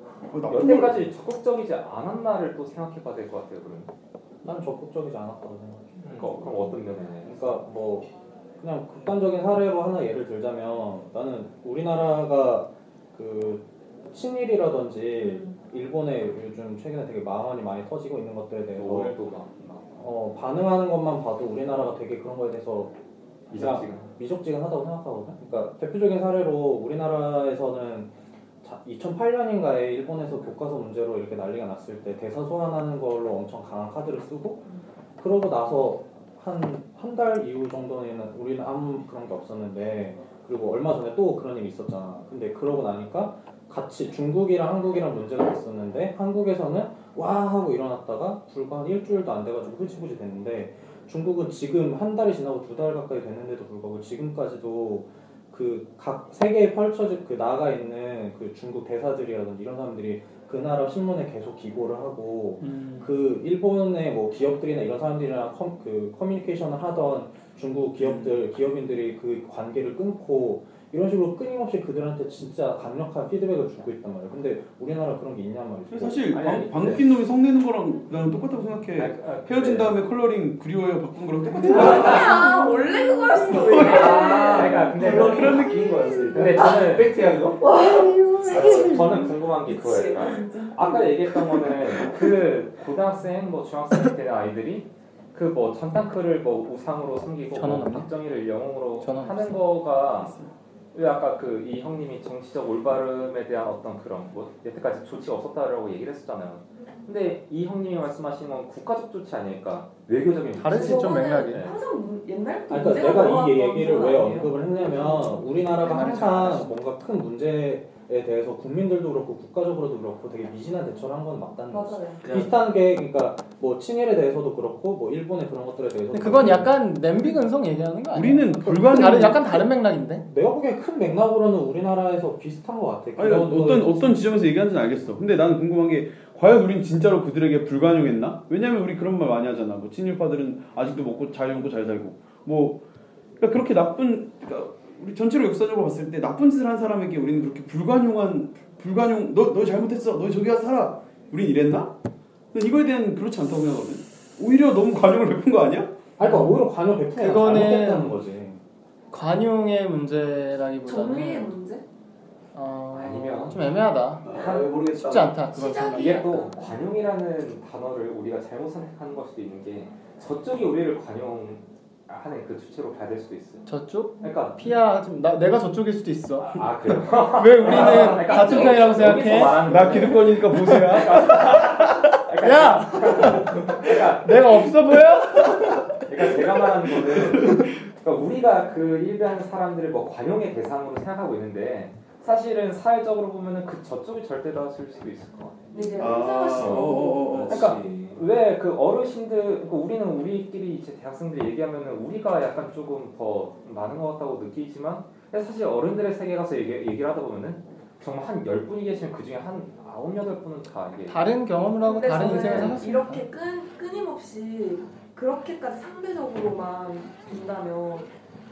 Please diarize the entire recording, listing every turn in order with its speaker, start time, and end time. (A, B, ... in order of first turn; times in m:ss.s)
0:00.3-0:01.1 A
0:00.5-0:03.9 B
0:04.4-0:05.9 C
0:06.0-0:06.9 D
0:06.1-0:07.4 B
0:07.2-0:19.2 C
0:18.8-0:19.8 B
0:20.0-0:22.9 C
0:23.5-0:24.1 B
0:23.5-0:28.1 C
0:28.6-0:34.6 C
0:35.2-1:16.5 C
1:02.6-1:03.0 E
1:08.0-1:08.4 A
1:15.9-1:22.4 A
1:16.3-1:17.1 B
1:18.9-1:20.1 B
1:21.6-1:24.5 F
1:21.8-1:22.1 B
1:22.3-1:23.5 E
1:23.6-1:26.5 A
1:23.8-1:25.7 B
1:23.9-1:27.7 D
1:26.3-1:27.4 B
1:27.6-1:28.9 F
1:27.7-1:29.2 E
1:28.5-1:29.3 D
1:28.6-1:40.3 B
1:29.6-1:31.0 F
1:37.5-1:38.1 E
1:39.0-1:39.6 E
1:40.9-1:51.8 B
1:50.6-1:51.7 E
1:50.7-1:55.2 F
1:52.7-2:07.0 C
1:53.4-1:54.5 B
1:55.7-1:56.7 E
2:01.7-2:02.2 F
2:02.2-2:02.7 D
2:06.1-2:10.2 E
2:08.1-2:09.6 A
2:10.2-2:14.2 C
2:13.2-2:22.8 A
2:23.4-2:31.9 A
2:32.5-2:35.9 A
2:36.2-2:38.6 C
2:36.2-2:36.6 E
2:37.1-2:38.2 E
2:39.1-2:41.5 E
2:40.8-2:41.8 F
2:42.5-2:46.3 E
2:42.9-2:43.7 B
2:44.2-2:45.4 A
2:45.5-2:46.7 F
2:45.9-2:53.7 B
2:53.6-2:56.6 E
2:54.2-2:54.7 B
2:56.4-3:04.5 B
2:57.3-2:59.8 E
2:57.7-3:01.9 A
3:02.4-3:05.9 E
3:06.1-3:15.7 B
3:07.3-3:07.6 E
3:15.7-3:17.3 F
3:16.0-3:17.7 A
3:16.0-3:18.2 D
3:17.5-3:31.2 B
3:31.1-3:33.2 E
3:31.8-3:38.1 F
3:32.3-3:32.8 B